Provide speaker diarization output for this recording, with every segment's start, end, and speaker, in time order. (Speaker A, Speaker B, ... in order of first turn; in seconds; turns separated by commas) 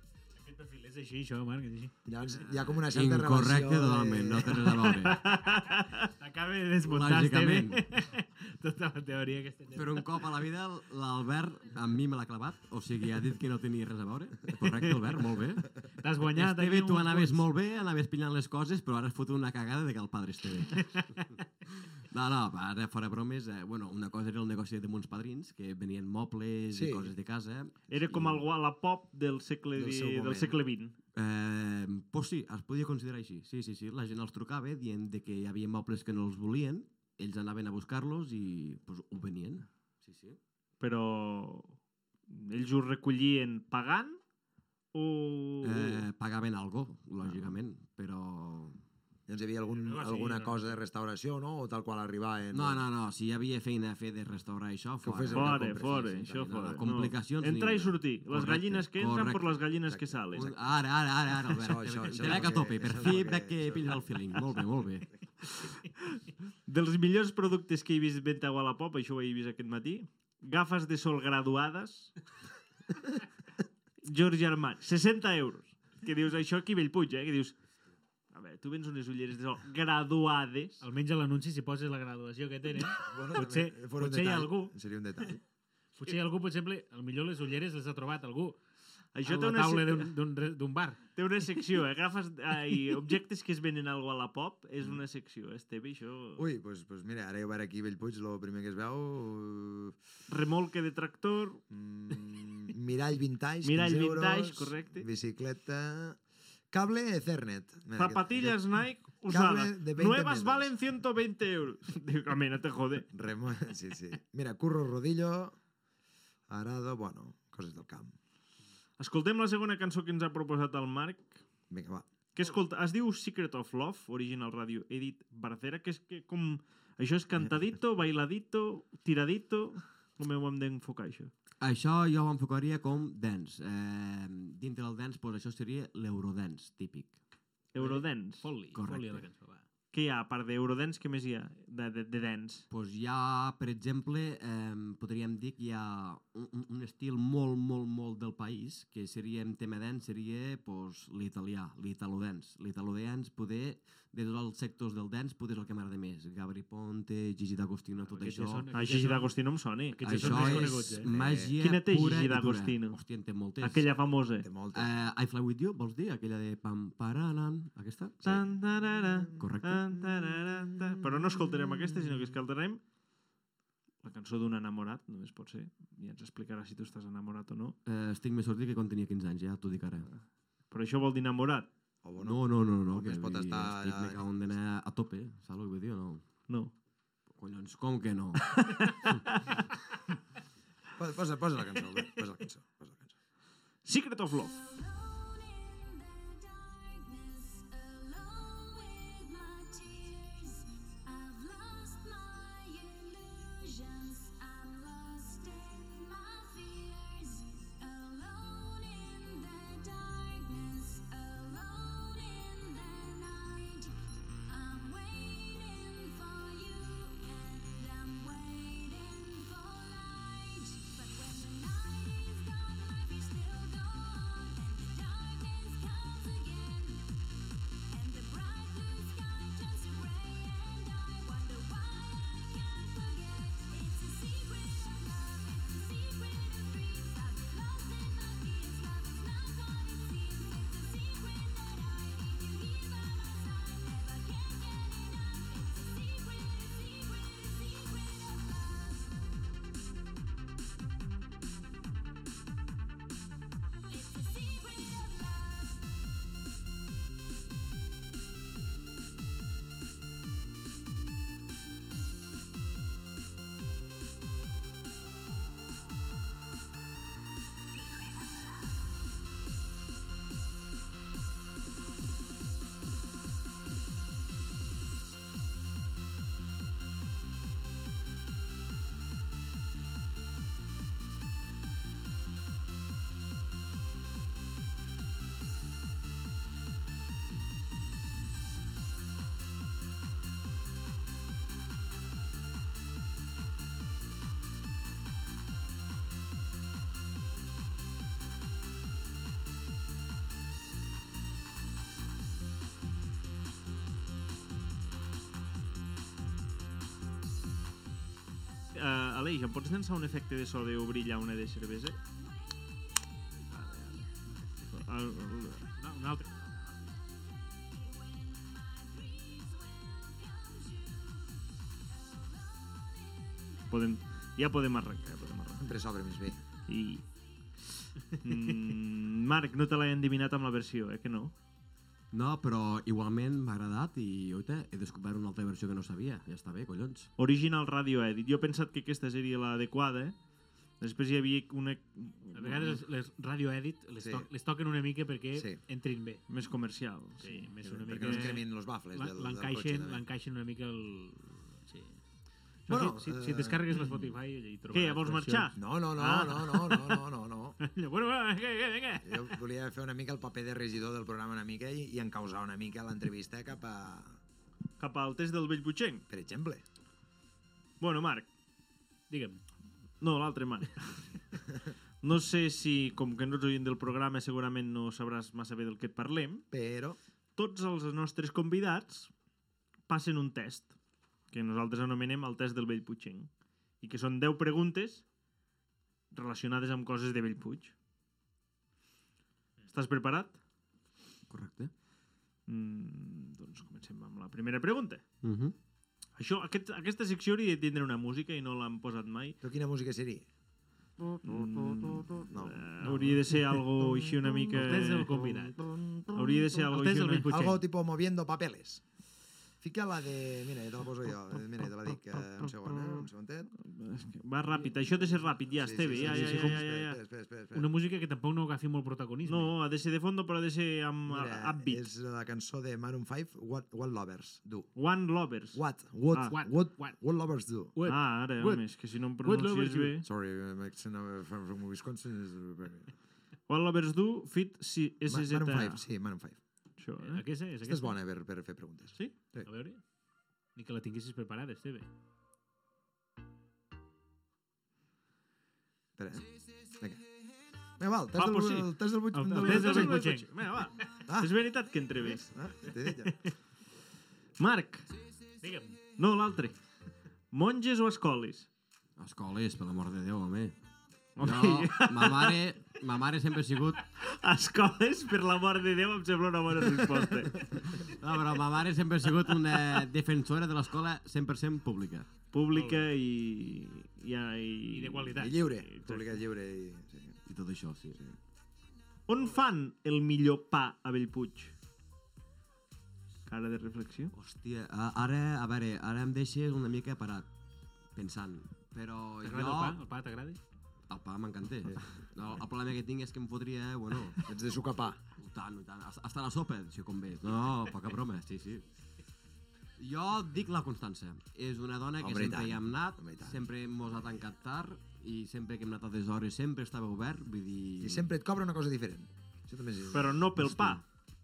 Speaker A: 0.4-1.9, Speaker B: 2.1-4.9, Speaker C: 2.4-5.2, Speaker D: 4.9-6.1, Speaker A: 6.2-10.3, Speaker C: 6.8-7.8, Speaker C: 9.7-28.4, Speaker A: 16.0-17.5, Speaker B: 26.7-27.1, Speaker D: 27.9-30.9, Speaker B: 29.8-30.6, Speaker C: 31.1-40.4, Speaker D: 40.8-41.8, Speaker D: 42.3-44.2, Speaker D: 44.9-46.0, Speaker C: 45.6-48.8, Speaker B: 47.2-47.5, Speaker B: 49.3-52.9, Speaker A: 49.7-50.8, Speaker C: 52.5-59.6, Speaker B: 55.0-56.4, Speaker D: 55.3-60.5, Speaker B: 59.9-60.5, Speaker C: 60.3-65.1, Speaker B: 61.3-64.1, Speaker D: 65.4-72.2, Speaker D: 74.0-77.6, Speaker D: 78.3-80.8, Speaker A: 80.8-84.7, Speaker B: 82.8-85.4, Speaker A: 86.0-88.6, Speaker D: 89.2-90.1, Speaker A: 89.2-91.0, Speaker D: 91.2-96.5, Speaker B: 96.4-100.0, Speaker D: 100.3-101.6, Speaker B: 101.7-106.2, Speaker D: 103.6-105.1, Speaker B: 106.7-108.6, Speaker D: 108.0-113.1, Speaker B: 109.2-110.7, Speaker B: 113.1-115.5, Speaker B: 116.5-118.2, Speaker D: 119.0-121.4, Speaker B: 121.7-122.1, Speaker D: 122.3-131.3, Speaker C: 131.6-137.2, Speaker D: 137.7-138.5, Speaker A: 137.8-139.7, Speaker C: 138.7-139.3, Speaker D: 139.9-142.7, Speaker C: 142.7-158.8, Speaker A: 158.1-159.4, Speaker D: 158.7-160.9, Speaker A: 159.9-161.1, Speaker C: 160.0-163.9, Speaker B: 161.0-161.6, Speaker D: 161.6-163.0, Speaker D: 163.6-164.5, Speaker B: 164.4-165.1, Speaker C: 164.7-168.3, Speaker D: 168.2-172.8, Speaker C: 169.4-169.9, Speaker B: 170.2-171.0, Speaker D: 174.0-177.8, Speaker C: 177.8-180.1, Speaker D: 180.1-181.7, Speaker B: 182.0-184.2, Speaker C: 182.2-186.3, Speaker D: 186.5-186.7, Speaker C: 187.3-188.6, Speaker D: 188.4-189.7, Speaker B: 191.0-193.2, Speaker D: 193.8-194.5, Speaker E: 194.3-213.9, Speaker E: 214.5-227.2, Speaker E: 227.9-249.3, Speaker E: 253.9-255.9, Speaker D: 308.7-312.0, Speaker E: 312.0-314.0, Speaker D: 314.7-315.6, Speaker A: 315.8-316.4, Speaker E: 316.4-323.9, Speaker D: 323.7-325.7, Speaker B: 325.6-326.4, Speaker D: 326.7-327.1, Speaker D: 327.6-331.3, Speaker C: 332.1-337.1, Speaker D: 337.2-340.1, Speaker D: 340.8-342.8, Speaker A: 342.3-346.2, Speaker B: 344.0-344.3, Speaker B: 345.3-345.6, Speaker D: 346.3-347.5, Speaker A: 347.2-352.0, Speaker B: 347.6-350.0, Speaker D: 348.0-348.3, Speaker A: 352.7-355.5, Speaker B: 352.7-353.9, Speaker D: 354.7-356.9, Speaker B: 355.6-357.6, Speaker A: 357.6-359.3, Speaker B: 359.0-364.2, Speaker D: 364.8-366.0, Speaker B: 366.1-366.6, Speaker D: 367.8-368.3, Speaker A: 369.1-369.4, Speaker D: 370.0-371.2, Speaker D: 372.0-376.5, Speaker B: 376.5-377.0, Speaker D: 377.4-379.1, Speaker D: 379.9-380.7, Speaker D: 381.3-383.3, Speaker D: 383.8-385.1, Speaker D: 386.1-387.7, Speaker D: 389.7-390.4, Speaker C: 391.3-391.7, Speaker D: 392.5-395.0, Speaker C: 395.2-395.5, Speaker D: 396.2-399.4, Speaker B: 399.4-400.3, Speaker D: 401.2-405.1, Speaker B: 402.2-402.9, Speaker A: 402.9-403.2, Speaker A: 404.5-405.6, Speaker B: 405.6-406.4, Speaker D: 406.1-407.3, Speaker A: 406.6-407.6, Speaker B: 407.3-408.9, Speaker B: 409.6-413.5, Speaker D: 412.1-413.1, Speaker D: 413.6-417.0, Speaker B: 415.5-417.7, Speaker A: 416.0-416.6, Speaker A: 417.5-419.5, Speaker D: 419.3-421.9, Speaker B: 421.1-424.7, Speaker D: 424.8-426.4, Speaker B: 425.5-427.7, Speaker A: 426.3-427.0, Speaker A: 427.8-428.7, Speaker D: 427.9-430.1, Speaker A: 429.2-429.9, Speaker B: 430.0-432.9, Speaker D: 433.5-435.9, Speaker B: 435.1-436.4, Speaker D: 436.8-437.2, Speaker A: 437.0-437.9, Speaker B: 437.6-439.5, Speaker A: 439.0-439.8, Speaker A: 440.6-441.9, Speaker B: 446.0-447.1, Speaker B: 447.8-450.0, Speaker D: 448.2-448.7, Speaker A: 449.1-450.7, Speaker D: 449.3-452.3, Speaker B: 451.1-451.3, Speaker B: 452.1-453.2, Speaker D: 454.4-454.9, Speaker A: 455.4-455.8, Speaker D: 456.0-456.6, Speaker D: 457.3-458.5, Speaker C: 459.0-460.6, Speaker D: 461.2-462.4, Speaker C: 461.2-463.8, Speaker D: 464.0-467.8, Speaker C: 467.8-472.1, Speaker D: 472.3-476.2, Speaker A: 472.5-472.9, Speaker A: 474.7-475.4, Speaker B: 475.1-477.2, Speaker C: 477.3-478.0, Speaker D: 479.1-481.5, Speaker D: 483.3-484.1, Speaker C: 484.1-487.3, Speaker C: 487.9-489.8, Speaker A: 489.2-490.4, Speaker C: 490.9-494.2, Speaker B: 491.6-492.4, Speaker B: 494.2-495.0, Speaker C: 495.2-498.7, Speaker C: 499.8-508.1, Speaker B: 502.0-503.4, Speaker B: 507.8-510.3, Speaker D: 509.9-510.8, Speaker C: 510.4-510.8